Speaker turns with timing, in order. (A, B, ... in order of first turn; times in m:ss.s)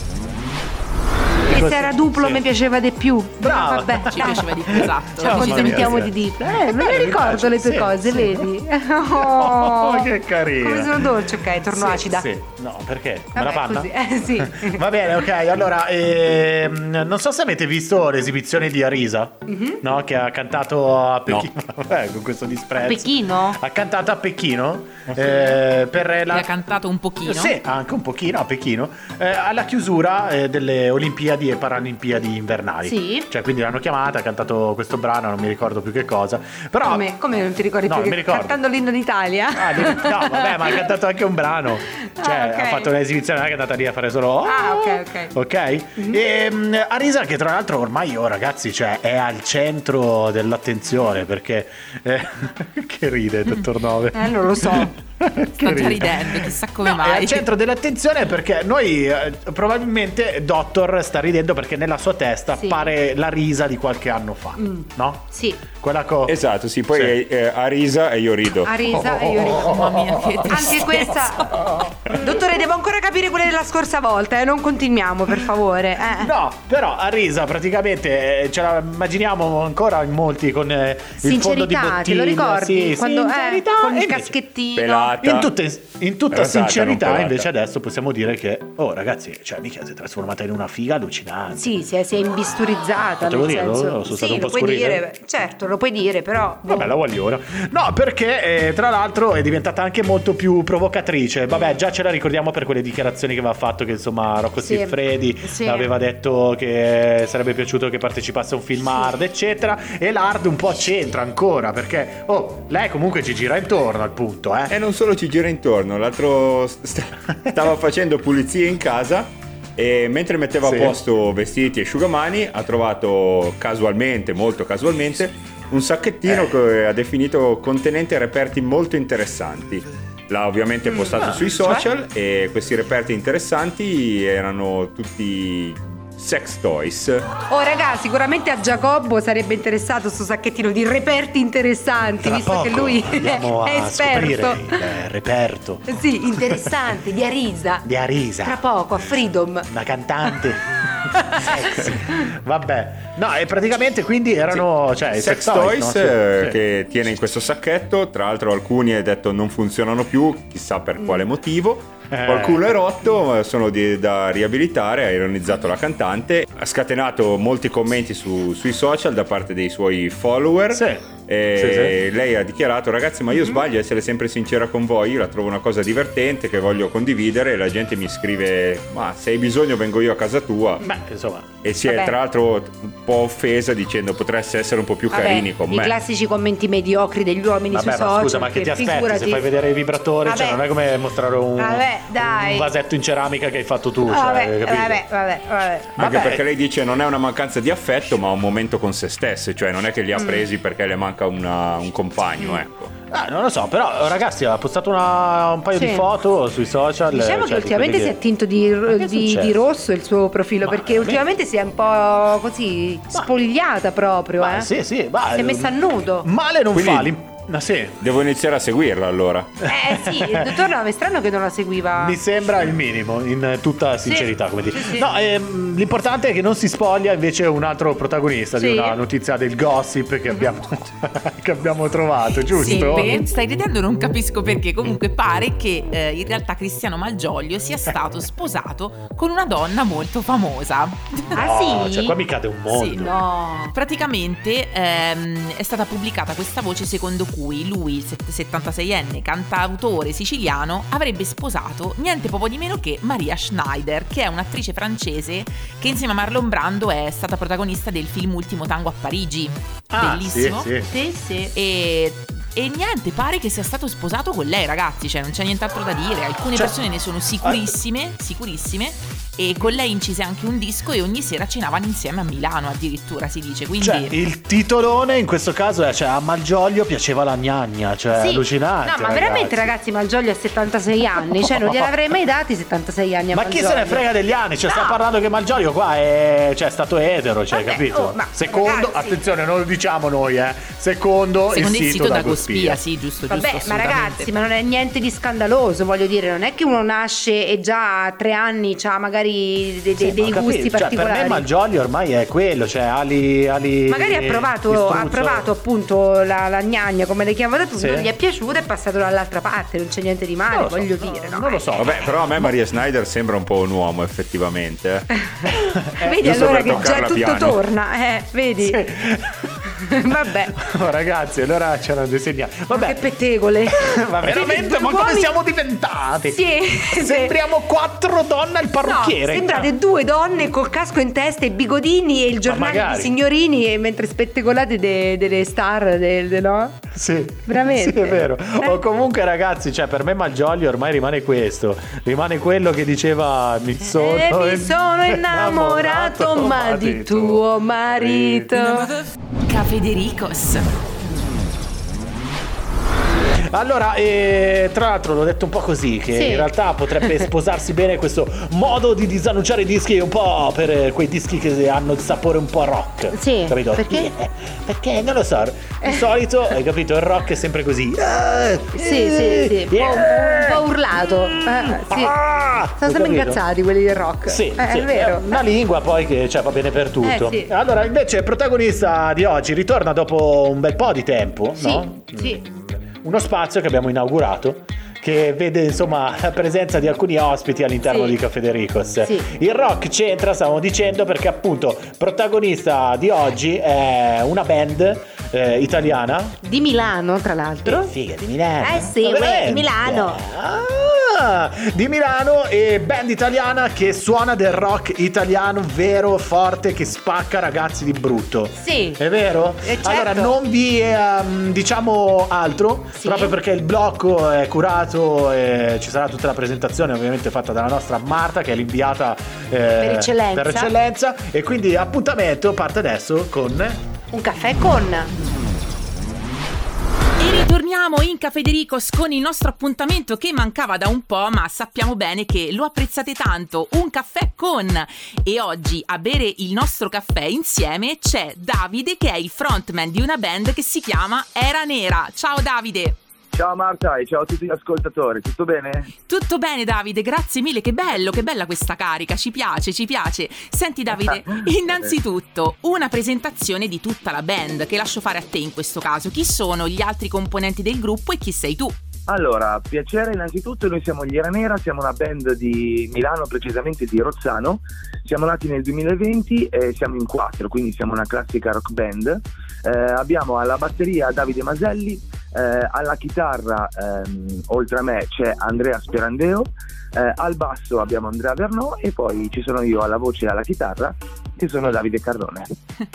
0:01.4-0:02.4 A
0:01.4-0:12.3 B
0:03.4-0:08.5 A
0:04.1-0:06.1 C
0:09.1-0:26.5 A
0:13.3-0:14.8 B
0:19.5-0:19.8 B
0:22.8-0:23.6 B
0:26.3-0:27.6 C
0:27.2-0:37.1 A
0:32.8-0:33.3 B
0:36.8-0:40.9 B
0:37.8-0:38.6 A
0:39.5-1:06.4 A
0:42.1-0:42.9 B
0:44.4-0:45.3 B
0:54.1-0:54.9 B
0:55.6-0:57.5 C
1:02.6-1:02.9 B
1:04.6-1:05.6 B
1:06.3-1:08.8 D
1:08.6-1:09.9 B
1:08.9-1:10.5 A
1:09.4-1:11.2 C
1:10.4-1:16.3 B
1:11.5-1:12.2 A
1:16.0-1:24.4 A
1:21.2-1:25.2 B
1:24.7-1:25.5 D
1:25.2-1:31.7 A
1:26.3-1:27.5 D
1:31.5-1:36.9 B
1:33.2-1:35.0 A
1:36.7-1:54.7 A
1:44.6-1:45.9 B
1:54.7-2:17.2 D
2:00.6-2:01.0 A
2:06.2-2:06.5 A
2:10.9-2:11.8 B
2:11.2-2:11.5 A
2:17.5-2:24.8 B
2:22.2-2:26.8 A
2:25.9-2:27.8 B
2:27.8-2:28.6 A
2:28.4-2:29.7 B
2:29.7-2:36.6 A
2:31.3-2:32.0 B
2:34.5-3:00.8 D
2:42.1-2:42.8 A
2:50.7-2:52.0 A
3:00.8-3:01.5 A
3:01.6-3:06.0 D
3:01.8-3:02.1 B
3:05.1-3:09.5 B
3:07.7-3:15.0 A
3:10.2-3:10.6 B
3:11.6-3:12.7 B
3:14.1-3:15.9 B
3:16.0-3:16.4 A
3:16.0-3:22.9 D
3:20.2-3:20.4 B
3:23.1-3:28.2 A
3:25.7-3:26.0 B
3:27.1-3:34.7 B
3:28.9-3:29.6 A
3:30.6-3:31.2 A
3:34.4-3:38.0 A
3:35.3-3:36.3 B
3:36.7-3:37.1 D
3:38.0-3:39.6 D
3:39.6-3:40.6 A
3:39.6-3:42.2 B
3:42.0-3:53.2 A
3:44.0-3:45.0 B
3:48.6-3:49.0 B
3:52.6-3:53.3 B
3:52.6-4:01.4 C
4:01.3-4:02.2 B
4:01.3-4:03.2 A
4:02.7-4:03.1 C
4:03.0-4:03.8 B
4:03.7-4:20.7 C
4:19.9-4:20.9 A
4:20.9-4:21.5 B
4:21.5-4:34.2 C
4:27.4-4:27.7 A
4:33.8-4:39.7 A
4:38.1-4:44.0 B
4:41.5-4:41.9 A
4:43.3-4:52.8 A
4:44.7-4:45.0 B
4:47.5-4:49.2 B
4:51.5-4:54.3 C
4:53.3-5:01.4 B
5:00.0-5:05.5 A
5:03.9-5:11.6 B
5:07.7-5:08.1 A
5:10.5-5:12.6 A
5:11.8-5:15.1 D
5:15.4-5:18.8 B
5:15.5-5:17.0 A
5:16.2-5:17.6 D
5:18.6-5:19.5 A
5:19.8-5:20.5 B
5:20.1-5:23.0 A
5:22.7-5:25.3 B
5:23.7-5:29.7 A
5:26.3-5:27.3 B
5:28.8-5:36.9 B
5:32.4-5:33.1 A
5:36.9-5:48.9 A
5:37.5-5:38.8 B
5:43.8-5:48.9 B
5:49.4-5:50.7 C
5:53.4-6:10.7 A
5:56.1-5:56.5 B
6:03.1-6:04.1 B
6:08.7-6:12.2 B
6:11.3-6:13.4 A
6:12.8-6:15.4 B
6:14.2-6:36.4 A
6:17.0-6:17.5 B
6:21.6-6:22.4 B
6:27.8-6:28.1 B
6:36.4-6:37.9 B
6:37.6-7:03.8 A
6:38.6-6:40.2 B
6:48.6-6:49.0 B
6:49.6-6:50.3 B
6:53.0-6:53.4 B
6:59.8-7:00.7 B
7:04.1-7:05.1 B
7:07.2-7:23.0 C
7:23.3-7:25.9 E
7:26.1-7:38.7 C
7:31.0-7:31.9 E
7:39.1-8:02.5 E